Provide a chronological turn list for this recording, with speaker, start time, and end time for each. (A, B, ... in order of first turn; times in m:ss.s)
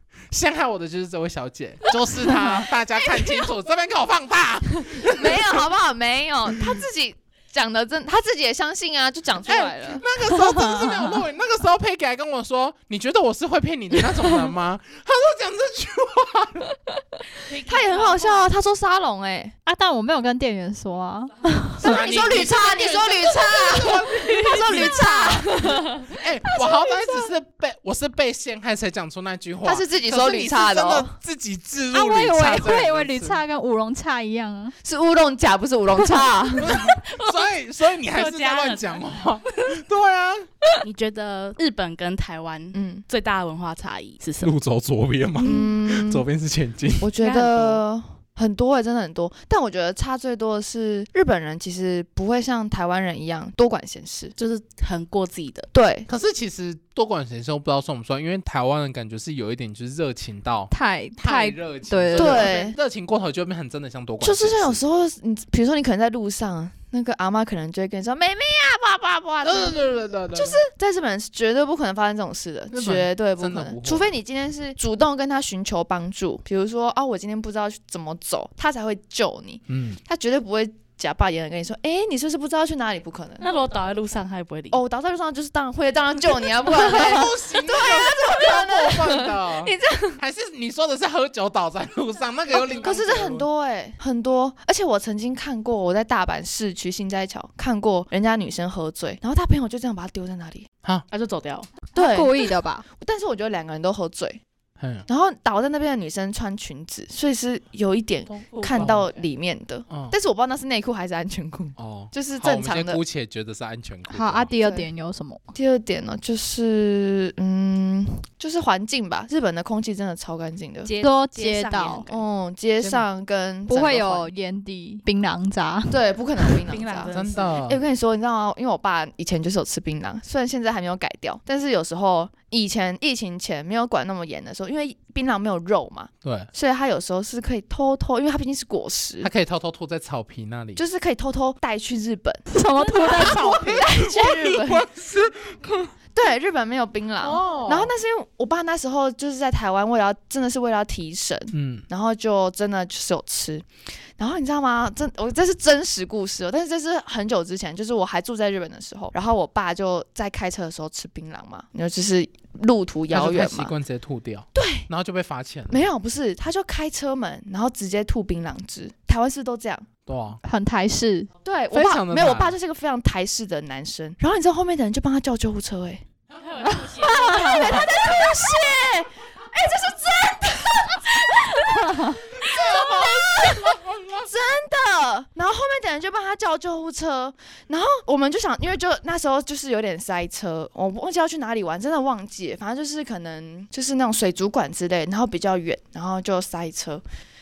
0:00.3-0:05.6 A
0:02.3-0:03.5 B
0:04.8-0:10.0 B
0:09.4-0:16.7 A
0:10.3-0:11.2 C
0:17.4-0:18.5 D
0:17.6-0:19.5 B
0:19.6-0:22.0 C
0:21.8-0:33.4 A
0:21.8-0:27.2 B
0:24.5-0:24.9 D
0:29.6-0:31.1 B
0:31.9-0:34.7 C
0:34.8-0:37.0 B
0:36.6-0:40.5 A
0:36.8-0:39.0 D
0:40.8-0:44.5 D
0:42.7-0:43.0 B
0:44.4-0:47.1 A
0:45.4-0:46.2 B
0:47.0-0:54.3 B
0:47.2-0:47.8 D
0:54.4-0:55.7 D
0:55.7-0:56.1 B
0:56.1-1:04.8 A
1:00.7-1:02.5 C
1:02.1-1:02.8 B
1:04.2-1:09.8 B
1:09.4-1:10.6 A
1:10.3-1:23.4 B
1:12.7-1:14.2 A
1:19.7-1:20.0 A
1:23.4-1:24.8 D
1:24.7-1:30.2 B
1:26.6-1:33.5 A
1:32.5-1:40.7 B
1:41.1-1:41.7 D
1:41.9-1:42.8 C
1:41.9-1:44.4 B
1:44.8-1:45.1 A
1:45.1-1:53.0 B
1:48.3-1:49.1 A
1:48.5-1:49.2 D
1:49.9-1:50.1 A
1:51.8-1:54.5 A
1:54.1-1:55.4 C
1:54.6-1:54.9 B
1:55.5-2:00.9 B
2:00.8-2:02.3 D
2:00.9-2:02.0 C
2:02.1-2:04.3 B
2:02.8-2:03.0 A
2:03.7-2:06.6 C
2:05.9-2:19.3 B
2:06.7-2:07.6 D
2:07.1-2:07.8 A
2:16.2-2:16.5 A
2:19.2-2:20.8 A
2:20.8-2:22.4 B
2:22.5-2:23.7 C
2:22.9-2:25.8 A
2:23.0-2:24.9 B
2:26.1-2:33.6 B
2:27.2-2:27.9 A
2:31.5-2:31.8 A
2:34.2-2:43.7 B
2:43.1-2:45.8 A
2:44.5-2:44.9 B
2:45.7-2:49.9 B
2:50.0-2:50.4 A
2:50.4-2:51.3 C
2:51.4-2:56.0 B
2:51.7-2:52.6 A
2:56.3-2:57.9 D
2:56.7-3:17.0 B
2:56.9-2:57.8 C
3:01.8-3:02.2 C
3:02.3-3:04.3 A